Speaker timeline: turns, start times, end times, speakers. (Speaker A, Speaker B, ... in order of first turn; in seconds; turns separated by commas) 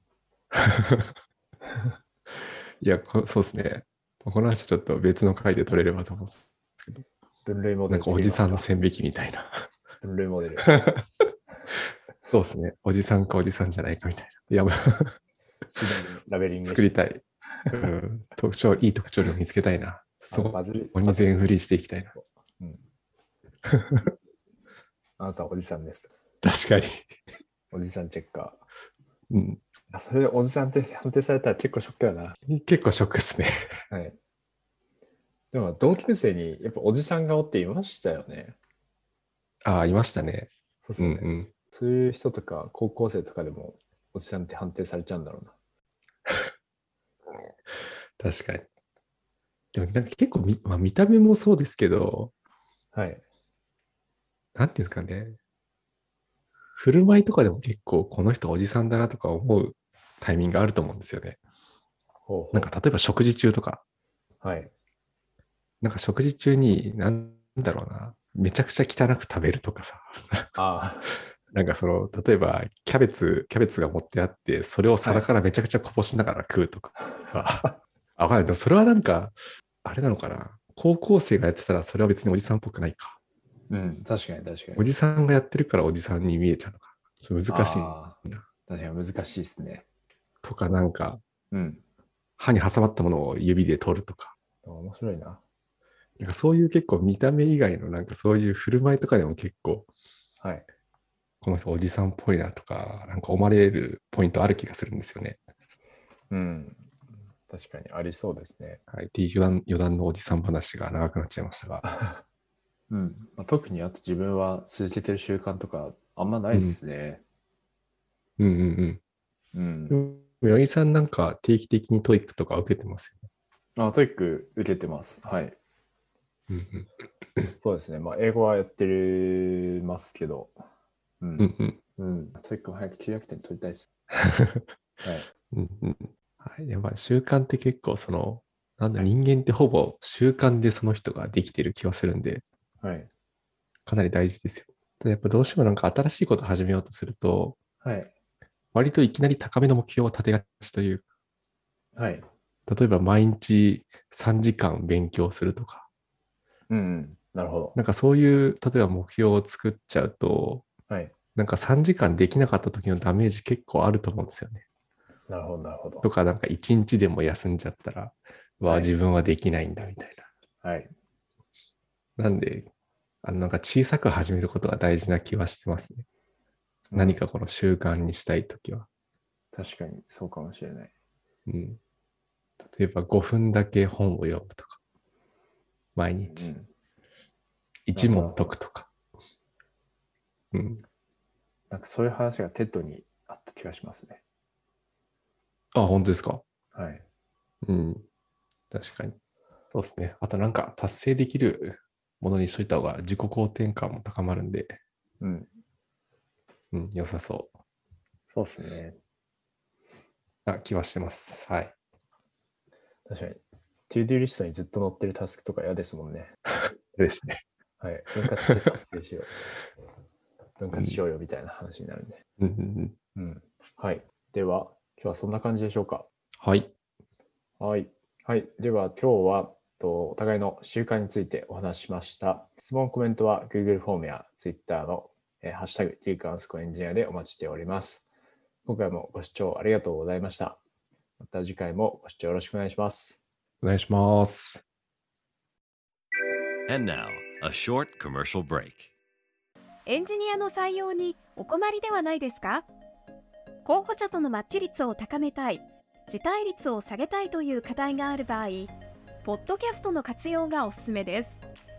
Speaker A: 0.5-1.1, Speaker A: 2.8-7.0, Speaker B: 7.5-8.7, Speaker A: 7.9-9.7, Speaker B: 10.0-10.8, Speaker A: 10.7-11.1, Speaker A: 12.3-15.2, Speaker B: 15.7-16.9, Speaker A: 16.6-22.1, Speaker B: 20.3-21.4, Speaker B: 22.1-22.8, Speaker A: 23.7-24.1, Speaker B: 25.2-26.1, Speaker A: 26.4-27.1, Speaker B: 27.7-28.6, Speaker A: 29.3-29.6, Speaker B: 29.9-32.4, Speaker A: 32.5-33.8, Speaker B: 33.9-34.2, Speaker B: 35.5-38.6, Speaker A: 39.6-41.5, Speaker B: 40.9-45.5, Speaker A: 48.2-48.6, Speaker A: 49.7-52.3, Speaker B: 52.9-53.2, Speaker A: 54.5-55.4, Speaker A: 56.8-61.4, Speaker B: 62.3-62.7, Speaker A: 62.5-63.8, Speaker B: 64.4-64.7, Speaker A: 65.8-70.6, Speaker B: 70.6-71.1, Speaker A: 71.5-83.2, Speaker B: 83.7-84.9, Speaker A: 84.8-88.4, Speaker B: 87.5-89.8, Speaker A: 90.4-91.2, Speaker B: 91.5-91.8, Speaker A: 92.4-94.3, Speaker B: 94.6-95.4, Speaker A: 96.2-99.9, Speaker B: 100.4-100.7, Speaker A: 101.4-105.4, Speaker B: 106.3-106.9, Speaker B: 107.5-108.8, Speaker A: 108.9-111.8, Speaker B: 111.8-112.2, Speaker B: 112.9-117.2, Speaker A: 116.5-116.8, Speaker A: 118.4-119.0, Speaker B: 119.5-120.0, Speaker A: 119.9-123.3, Speaker B: 123.8-125.6, Speaker A: 126.5-127.5, Speaker B: 127.6-130.6, Speaker B: 131.2-133.9, Speaker A: 131.4-131.8, Speaker A: 134.1-134.7, Speaker B: 135.0-135.3, Speaker A: 135.5-142.4, Speaker B: 142.8-143.1, Speaker A: 143.9-147.6, Speaker B: 147.8-148.1, Speaker A: 148.7-151.0, Speaker B: 152.0-152.2, Speaker A: 152.7-155.9, Speaker B: 156.7-157.8, Speaker A: 157.8-160.7, Speaker A: 161.3-164.6, Speaker B: 165.3-166.1, Speaker A: 166.0-170.3, Speaker B: 168.7-168.9, Speaker B: 170.6-170.9, Speaker A: 172.2-172.7, Speaker A: 173.2-176.1, Speaker B: 176.9-177.2, Speaker A: 176.9-178.9, Speaker B: 179.5-180.9, Speaker A: 181.5-181.8, Speaker A: 182.6-184.8, Speaker A: 185.9-186.5, Speaker B: 186.2-186.7, Speaker A: 187.9-188.9, Speaker B: 187.9-188.5, Speaker A: 190.5-190.8, Speaker B: 191.7-194.2, Speaker A: 195.7-196.4, Speaker B: 196.7-197.0, Speaker A: 197.6-198.1, Speaker A: 198.7-199.2, Speaker A: 199.7-204.8, Speaker B: 205.2-205.5, Speaker A: 206.7-207.5, Speaker B: 208.3-209.0, Speaker A: 210.5-211.7, Speaker B: 213.1-216.3, Speaker A: 216.9-217.4, Speaker B: 217.8-219.3, Speaker B: 220.6-222.2, Speaker A: 222.4-223.0, Speaker B: 223.1-226.1, Speaker A: 226.4-226.7, Speaker B: 227.6-238.1, Speaker B: 238.6-240.6, Speaker B: 241.2-243.2, Speaker A: 243.6-244.6, Speaker C: 246.7-248.9, Speaker D: 249.9-252.7, Speaker D: 253.6-258.7, Speaker D: 259.2-261.4